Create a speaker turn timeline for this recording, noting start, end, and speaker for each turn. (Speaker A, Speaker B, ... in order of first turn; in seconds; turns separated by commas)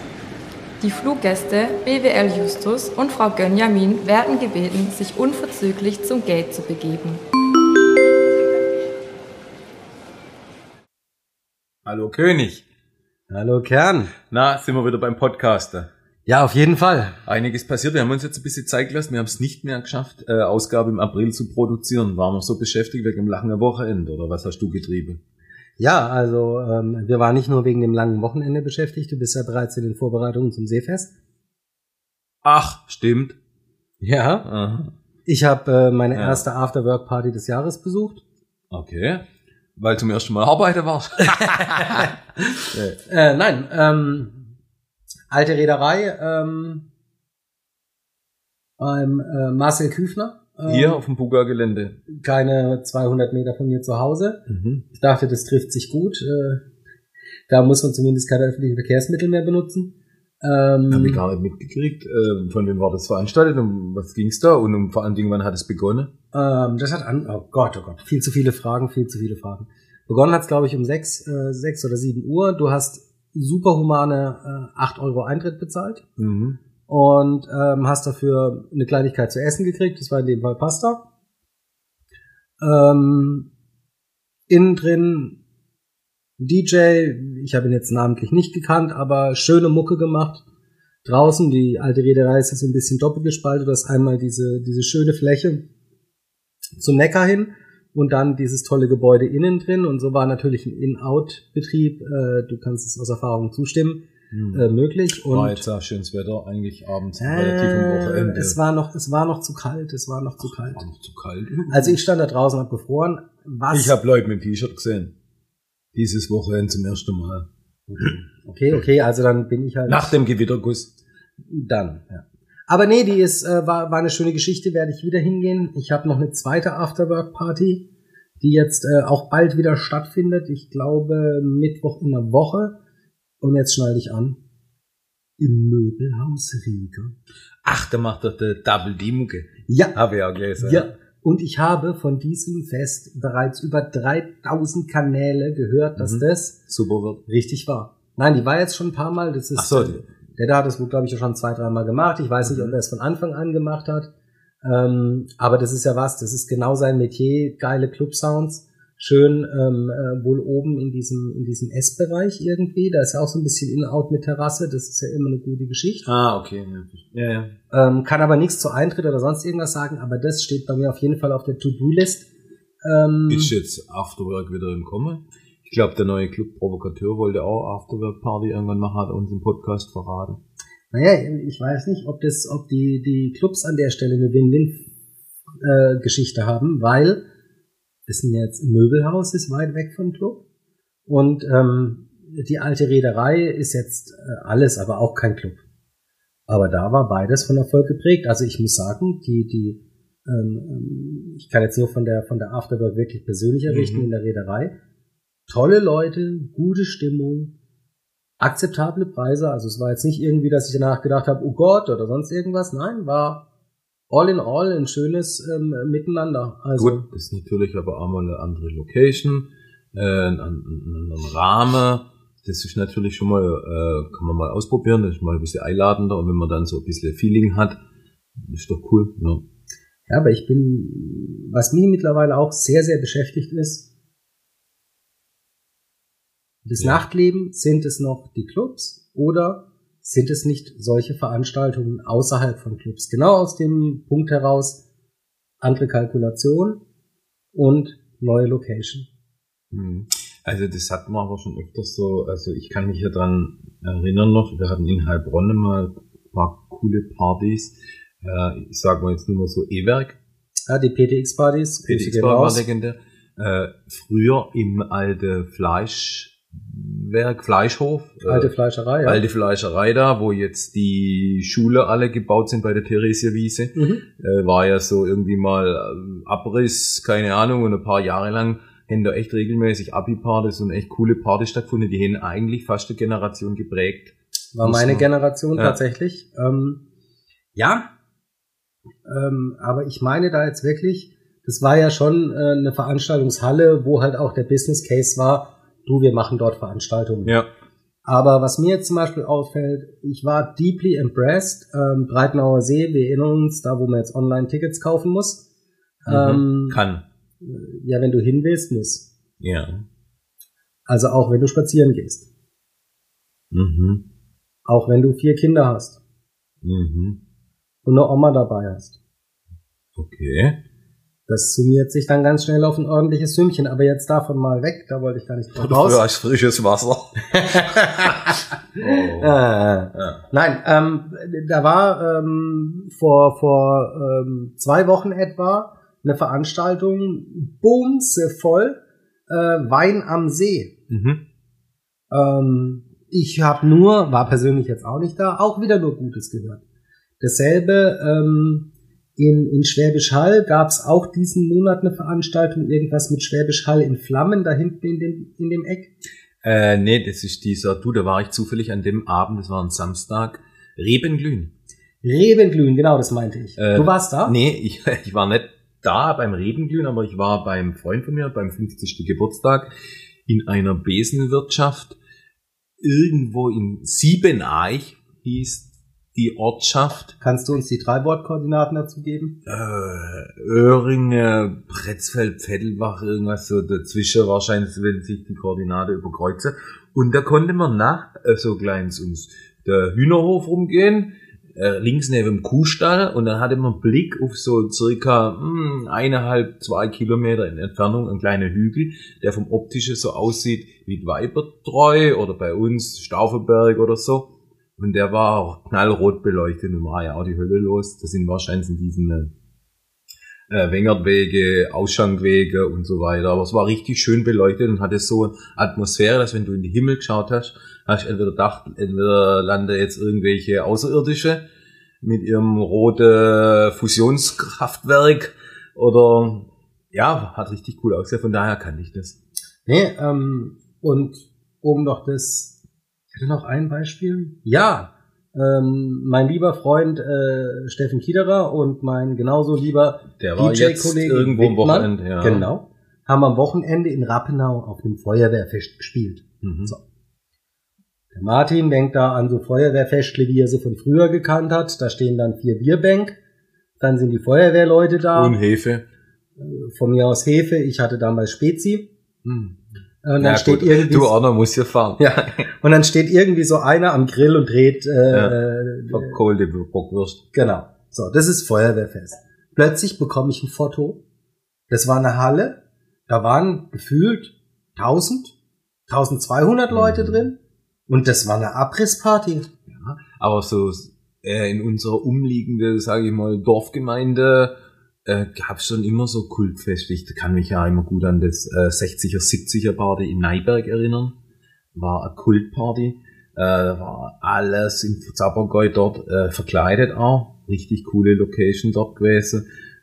Speaker A: 0.8-7.2, Speaker B: 11.8-12.6, Speaker C: 13.3-14.1, Speaker B: 14.3-15.9, Speaker C: 16.2-17.2, Speaker B: 17.2-25.2, Speaker C: 25.8-31.1, Speaker B: 32.4-33.4, Speaker C: 34.0-34.5, Speaker B: 34.4-34.9, Speaker C: 35.2-38.2, Speaker B: 36.1-36.4, Speaker B: 38.7-39.2, Speaker B: 39.8-42.1, Speaker C: 41.6-44.5, Speaker B: 42.7-43.0, Speaker C: 45.3-46.9, Speaker C: 48.8-51.0, Speaker B: 50.7-52.0, Speaker C: 52.1-56.6, Speaker B: 54.5-54.9, Speaker C: 57.5-61.2, Speaker B: 60.9-66.1, Speaker C: 66.3-76.0, Speaker B: 76.2-76.6, Speaker C: 76.9-81.0, Speaker C: 82.6-83.5, Speaker C: 84.5-85.4, Speaker C: 86.4-90.4, Speaker C: 91.0-95.7, Speaker C: 96.8-105.6, Speaker B: 104.3-104.7, Speaker B: 105.2-108.6, Speaker C: 107.2-110.8, Speaker B: 110.4-112.0, Speaker C: 111.7-114.0, Speaker B: 113.7-115.1, Speaker B: 115.9-118.2, Speaker C: 117.9-120.2, Speaker B: 119.9-120.9, Speaker C: 121.5-127.8, Speaker C: 128.4-132.7, Speaker C: 133.4-134.4, Speaker C: 135.4-137.2, Speaker B: 137.6-140.9, Speaker C: 139.7-139.9, Speaker C: 140.6-146.6, Speaker B: 146.0-147.2, Speaker C: 147.2-154.1, Speaker B: 149.6-150.0, Speaker B: 152.4-152.8, Speaker C: 154.6-166.0, Speaker B: 166.0-167.6, Speaker C: 167.7-172.3, Speaker C: 172.8-173.5, Speaker B: 173.3-180.4, Speaker C: 180.9-184.8, Speaker C: 185.6-187.2, Speaker C: 188.1-190.4, Speaker C: 191.1-195.6, Speaker C: 196.5-204.7, Speaker B: 203.7-204.1, Speaker C: 205.5-207.5, Speaker C: 208.4-213.4, Speaker C: 214.1-217.1, Speaker B: 216.8-227.8, Speaker B: 228.3-229.4, Speaker C: 230.1-233.8, Speaker C: 236.6-244.8, Speaker C: 245.6-246.8, Speaker C: 247.5-249.1, Speaker B: 249.7-260.2, Speaker C: 260.7-262.6, Speaker B: 261.8-268.5, Speaker C: 268.2-269.2, Speaker B: 269.0-285.8, Speaker C: 273.7-274.0, Speaker C: 284.5-286.8, Speaker C: 287.5-287.9, Speaker C: 289.1-297.4, Speaker C: 298.0-305.4, Speaker C: 306.0-306.8, Speaker B: 306.1-307.0, Speaker C: 307.4-309.1, Speaker B: 309.4-309.9, Speaker C: 310.9-312.2, Speaker B: 313.5-314.0, Speaker C: 314.6-316.0, Speaker B: 316.6-317.2, Speaker C: 317.8-318.9, Speaker B: 319.9-320.6, Speaker C: 321.3-326.0, Speaker B: 325.6-328.2, Speaker C: 327.3-340.7, Speaker B: 328.8-329.4, Speaker B: 329.9-330.2, Speaker B: 340.9-341.2, Speaker C: 342.1-346.6, Speaker C: 347.2-355.9, Speaker B: 356.4-361.5, Speaker C: 362.0-364.3, Speaker B: 363.6-369.7, Speaker B: 370.2-372.0, Speaker B: 372.8-377.1, Speaker C: 377.2-379.4, Speaker B: 379.4-409.3, Speaker B: 410.5-421.4, Speaker B: 422.0-429.2, Speaker C: 429.7-432.6, Speaker C: 433.1-446.8, Speaker B: 440.2-442.5, Speaker B: 446.4-446.7, Speaker C: 448.1-453.1, Speaker C: 453.8-455.4, Speaker B: 455.1-455.8, Speaker C: 456.4-458.9, Speaker B: 459.2-459.6, Speaker C: 460.0-461.1, Speaker B: 460.2-462.4, Speaker C: 462.0-466.2, Speaker B: 465.1-465.4, Speaker B: 465.9-467.2, Speaker C: 467.3-471.0, Speaker C: 471.7-475.3, Speaker C: 475.9-479.5, Speaker B: 476.7-477.3, Speaker B: 479.7-484.5, Speaker B: 485.1-491.1, Speaker B: 491.7-499.4